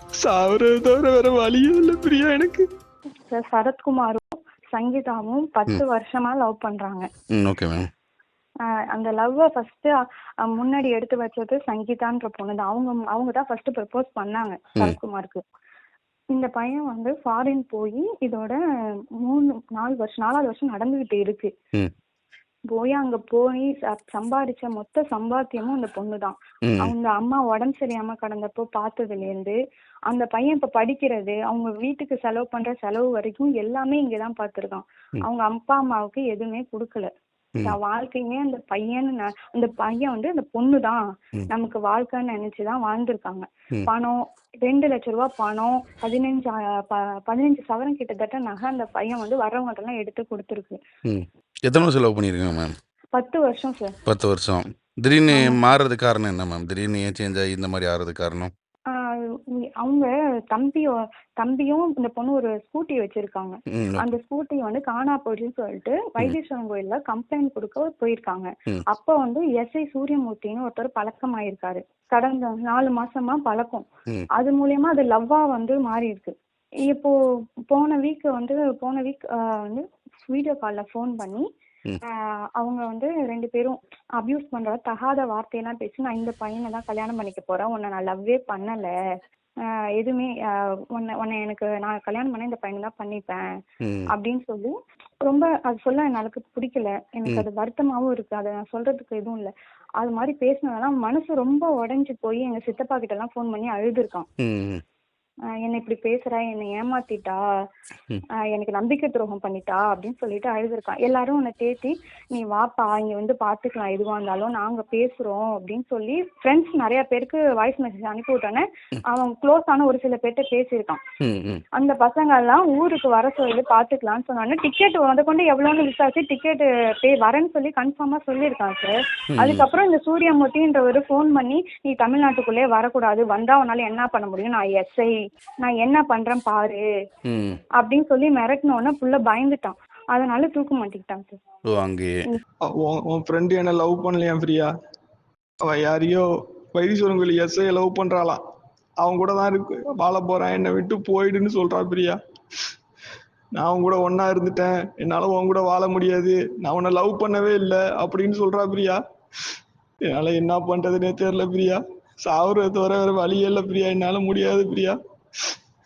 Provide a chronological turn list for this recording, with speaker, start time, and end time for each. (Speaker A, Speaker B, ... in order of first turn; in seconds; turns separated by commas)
Speaker A: 0.2-2.6, Speaker B: 3.3-7.1, Speaker C: 7.3-7.8, Speaker B: 8.9-15.4, Speaker B: 16.3-18.6, Speaker B: 19.2-21.5, Speaker B: 22.7-29.6, Speaker C: 26.7-26.9, Speaker B: 30.1-37.1, Speaker B: 37.6-41.0, Speaker B: 41.5-50.8, Speaker C: 51.1-52.7, Speaker B: 53.1-54.0, Speaker C: 54.0-58.5, Speaker B: 55.3-55.6, Speaker B: 59.8-76.3, Speaker C: 63.7-64.0, Speaker B: 76.9-77.1, Speaker B: 77.7-81.5, Speaker B: 82.1-88.9, Speaker B: 90.0-90.3, Speaker B: 91.0-93.4, Speaker B: 94.1-104.3, Speaker C: 104.4-104.8, Speaker B: 105.6-107.4, Speaker B: 108.5-121.0, Speaker C: 121.2-121.6, Speaker B: 121.8-135.1, Speaker C: 129.3-129.7, Speaker B: 135.6-136.8, Speaker C: 137.3-137.6, Speaker B: 137.8-141.4, Speaker C: 141.7-142.2, Speaker A: 142.7-144.7, Speaker A: 145.6-148.4, Speaker A: 149.0-152.2, Speaker A: 153.6-159.0, Speaker A: 160.1-165.0